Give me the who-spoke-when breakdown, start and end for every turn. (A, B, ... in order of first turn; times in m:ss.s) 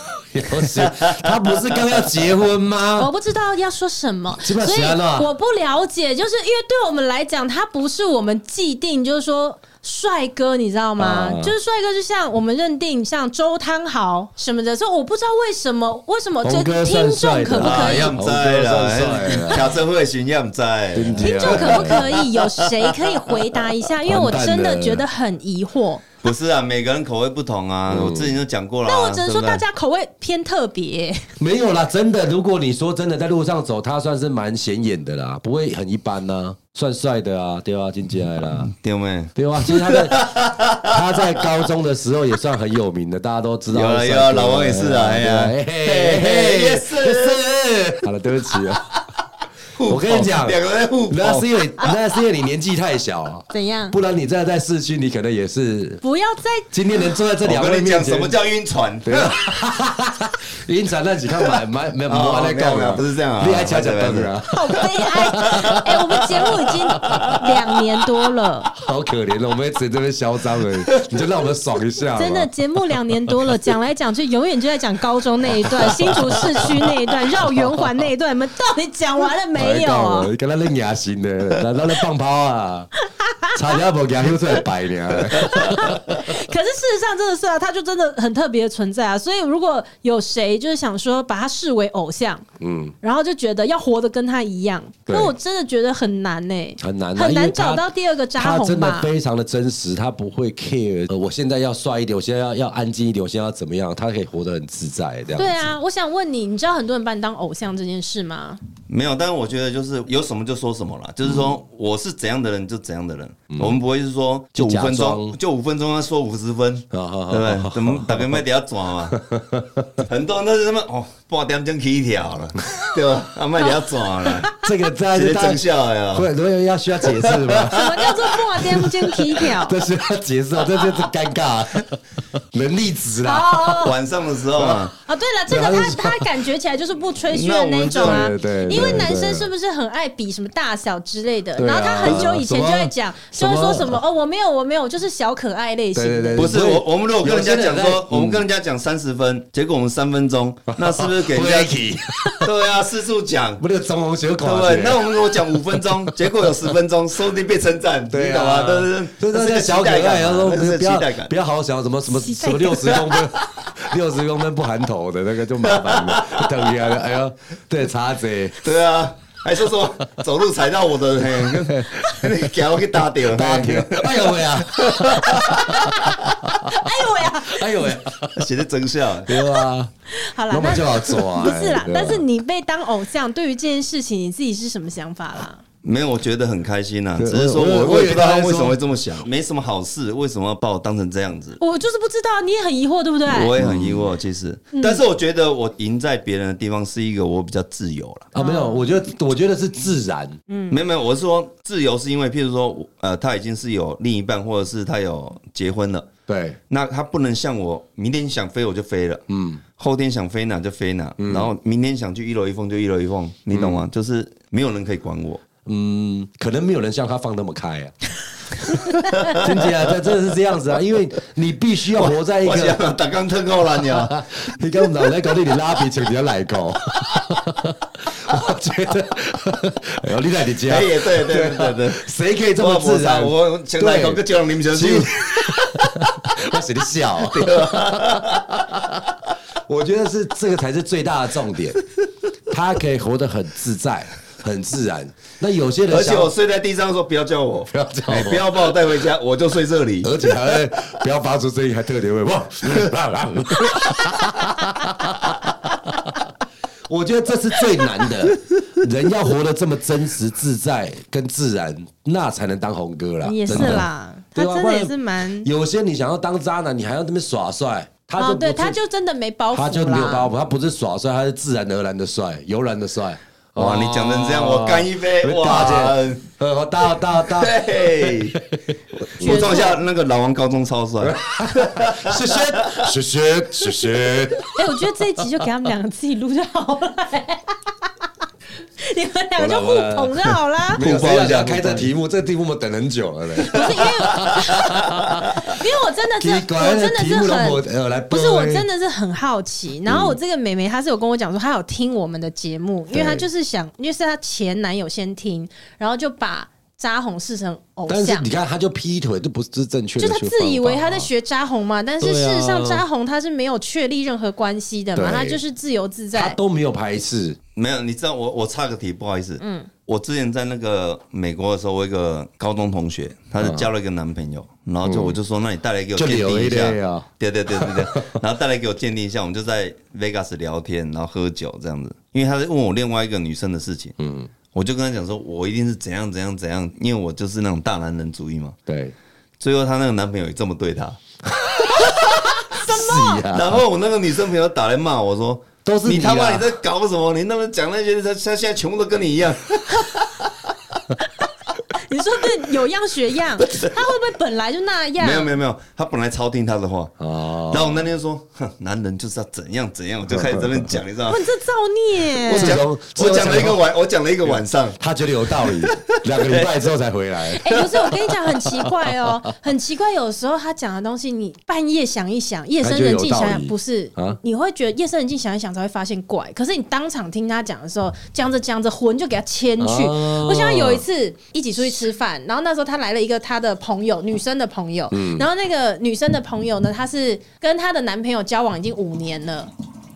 0:00.3-0:03.1 A
0:03.0-0:18.2 B
0:04.4-0:05.3 A
0:11.0-0:11.6 A
0:16.4-0:19.8 A
0:17.6-0:22.3 C
0:20.9-0:22.1 A
0:21.2-0:26.1 B
0:24.0-0:25.0 A
0:26.2-0:29.6 C
0:27.9-0:28.4 A
0:28.8-0:31.3 B
0:31.4-0:38.7 A
0:38.5-0:41.4 C
0:39.4-0:40.3 A
0:40.9-0:48.8 A
0:43.7-0:47.4 C
0:49.8-0:51.5 C
0:49.9-0:56.0 A
0:53.5-0:54.0 B
0:56.0-0:56.7 B
0:56.7-0:58.4 A
0:57.4-0:59.4 C
0:59.0-1:07.2 A
1:02.1-1:04.4 C
1:04.5-1:08.7 B
1:05.7-1:06.4 C
1:07.0-1:07.4 C
1:08.8-1:12.5 A
1:10.9-1:11.3 C
1:12.2-1:20.3 B
1:17.4-1:17.8 A
1:19.6-1:22.9 A
1:23.2-1:23.6 B
1:23.5-1:26.2 A
1:25.3-1:32.4 B
1:32.6-1:33.0 A
1:33.0-1:39.1 B
1:35.1-1:35.3 A
1:36.8-1:45.6 A
1:45.4-1:48.6 B
1:48.9-1:59.2 C
1:51.2-1:51.5 A
1:53.5-1:53.8 A
1:54.6-1:55.4 A
1:56.9-1:58.4 A
1:59.1-2:00.1 A
2:00.1-2:04.6 C
2:03.6-2:04.6 B
2:04.6-2:05.6 A
2:05.1-2:06.3 C
2:06.1-2:07.8 A
2:07.0-2:07.8 C
2:07.7-2:09.8 B
2:09.4-2:12.0 A
2:12.5-2:13.9 A
2:13.2-2:14.0 B
2:13.8-2:14.9 C
2:14.6-2:14.9 A
2:15.0-2:26.5 B
2:15.5-2:16.3 A
2:17.3-2:19.1 C
2:18.0-2:19.5 A
2:21.6-2:24.0 A
2:22.0-2:22.3 C
2:26.0-2:28.5 A
2:26.3-2:31.8 C
2:30.7-2:32.5 A
2:32.4-2:33.6 C
2:33.6-2:36.5 A
2:34.4-2:41.3 C
2:38.1-2:48.6 A
2:42.1-2:43.1 B
2:42.9-2:43.4 C
2:45.6-2:47.0 C
2:48.6-2:56.1 C
2:51.2-2:52.3 A
2:53.2-2:56.1 A
2:56.7-2:57.9 B
2:57.2-2:58.5 A
2:58.4-2:59.5 C
2:59.3-2:59.9 A
3:00.2-3:05.6 B
3:00.5-3:02.2 A
3:05.8-3:11.6 C
3:07.2-3:08.8 A
3:11.6-3:13.6 B
3:13.3-3:18.3 C
3:13.6-3:14.1 A
3:14.7-3:15.0 B
3:18.3-3:20.4 A
3:18.4-3:18.9 B
3:20.5-3:20.8 B
3:20.7-3:26.1 C
3:26.3-3:26.6 A
3:26.7-3:29.2 C
3:29.3-3:29.6 A
3:29.8-3:35.4 C
3:31.2-3:31.5 A
3:33.5-3:33.9 A
3:35.7-3:38.0 A
3:39.1-3:39.8 C
3:39.3-3:42.8 A
3:41.9-3:44.2 C
3:44.0-3:58.2 A
3:50.7-3:56.0 C
3:57.2-3:58.9 C
3:59.7-4:01.8 A
4:02.5-4:06.3 A
4:05.9-4:10.2 C
4:07.6-4:08.8 A
4:10.0-4:15.4 A
4:16.9-4:28.8 A
4:23.2-4:25.5 B
4:28.2-4:30.3 B
4:29.5-4:39.7 A
4:33.6-4:36.2 C
4:36.9-4:38.4 C
4:39.1-4:42.8 C
4:39.2-4:39.8 B
4:41.0-4:44.8 A
4:44.5-4:47.6 B
4:48.8-4:50.8 B
4:49.4-4:50.2 A
4:50.7-4:54.1 A
4:50.8-4:51.9 C
4:53.4-5:08.3 B
4:54.0-4:54.3 C
4:56.2-4:58.7 A
4:59.9-5:00.2 A
5:02.9-5:03.3 A
5:07.9-5:11.1 A
5:10.0-5:16.4 B
5:12.0-5:12.9 A
5:15.0-5:15.4 A
5:16.1-5:17.4 A
5:17.6-5:33.9 C
5:19.4-5:19.7 B
5:23.4-5:23.7 A
5:24.8-5:25.2 A
5:26.0-5:28.1 A
5:34.0-5:34.3 A
5:34.5-5:38.6 C
5:38.7-5:39.0 A
5:39.4-5:41.0 C
5:41.8-5:43.2 B
5:42.5-5:43.6 A
5:43.3-5:50.3 C
5:45.6-5:46.6 A
5:51.8-5:55.3 B
5:53.5-5:53.8 C
5:55.0-5:56.9 C
5:57.0-5:57.9 A
5:57.5-6:01.2 C
6:00.1-6:00.8 A
6:01.1-6:02.6 B
6:02.2-6:03.7 A
6:02.2-6:04.8 C
6:04.2-6:07.5 A
6:05.3-6:06.7 C
6:07.3-6:29.5 B
6:07.5-6:08.2 C
6:12.6-6:14.2 A
6:19.6-6:20.8 A
6:24.9-6:25.3 A